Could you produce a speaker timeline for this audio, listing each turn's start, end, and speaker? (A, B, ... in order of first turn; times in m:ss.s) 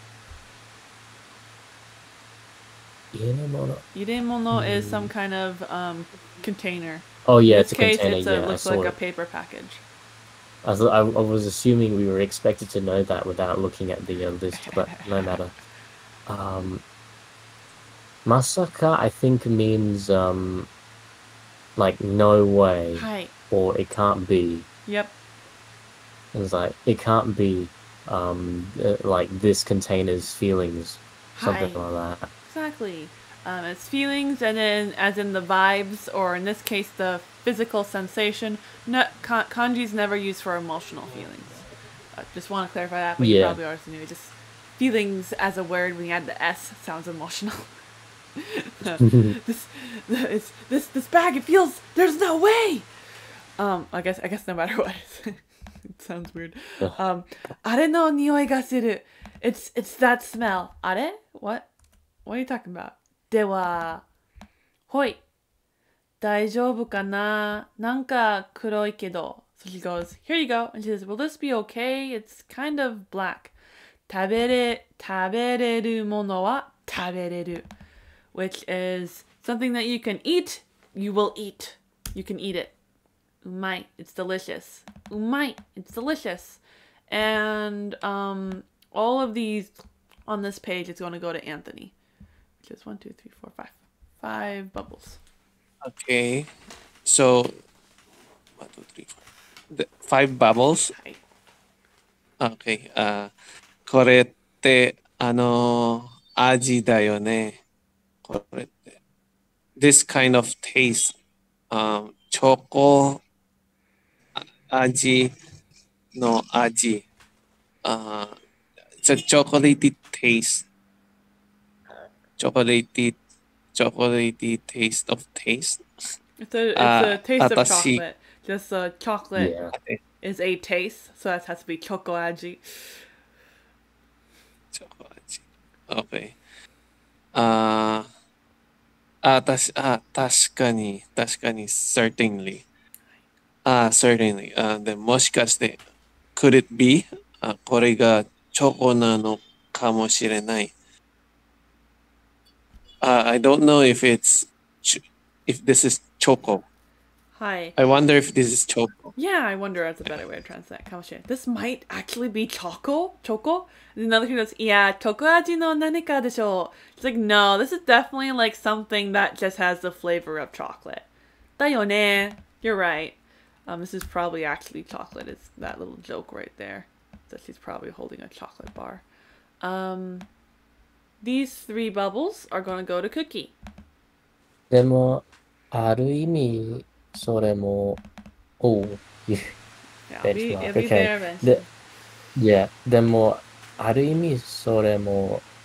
0:03.1-0:03.8 A
0:03.9-0:09.8 B
0:04.5-0:05.1 A
0:07.3-0:09.0 A
0:10.6-0:15.5 A
0:14.5-0:15.4 B
0:16.3-0:16.8 A
0:18.2-0:20.7 A
0:21.8-0:24.7 A
0:23.0-0:23.3 B
0:24.9-0:25.1 B
0:26.3-0:32.3 A
0:31.4-0:31.8 B
0:32.5-0:47.7 B
0:43.2-0:43.6 A
0:48.4-0:52.9 B
0:49.0-0:49.4 A
0:53.6-1:01.7 B
1:02.2-1:04.0 B
1:04.9-1:05.2 B
1:06.2-1:13.5 B
1:14.1-1:17.7 B
1:18.3-1:22.7 B
1:23.4-1:31.9 B
1:32.6-1:35.2 B
1:35.8-1:36.5 C
1:37.1-1:37.6 C
1:38.6-1:39.2 C
1:39.7-1:40.9 C
1:40.9-1:41.2 B
1:42.4-1:43.3 C
1:43.9-1:47.5 C
1:48.3-1:49.0 C
1:49.8-1:51.1 C
1:51.7-1:53.2 C
1:54.4-1:55.3 C
1:56.2-1:57.0 C
1:57.8-1:58.4 C
1:59.0-2:00.6 C
2:02.4-2:03.2 C
2:03.7-2:05.8 C
2:06.4-2:09.5 B
2:06.8-2:08.0 C
2:09.4-2:09.7 A
2:10.2-2:12.6 B
2:14.7-2:16.4 C
2:17.3-2:18.1 C
2:19.2-2:22.6 C
2:23.6-2:25.8 C
2:26.4-2:30.7 C
2:33.0-2:36.6 C
2:37.4-2:37.7 B
2:37.8-2:39.2 C
2:39.2-2:51.1 B
2:51.6-2:59.0 B
2:59.6-3:00.3 B
3:01.2-3:03.6 B
3:04.7-3:08.0 A
3:08.6-3:09.5 A
3:10.1-3:11.7 B
3:10.2-3:11.6 A
3:12.4-3:15.4 A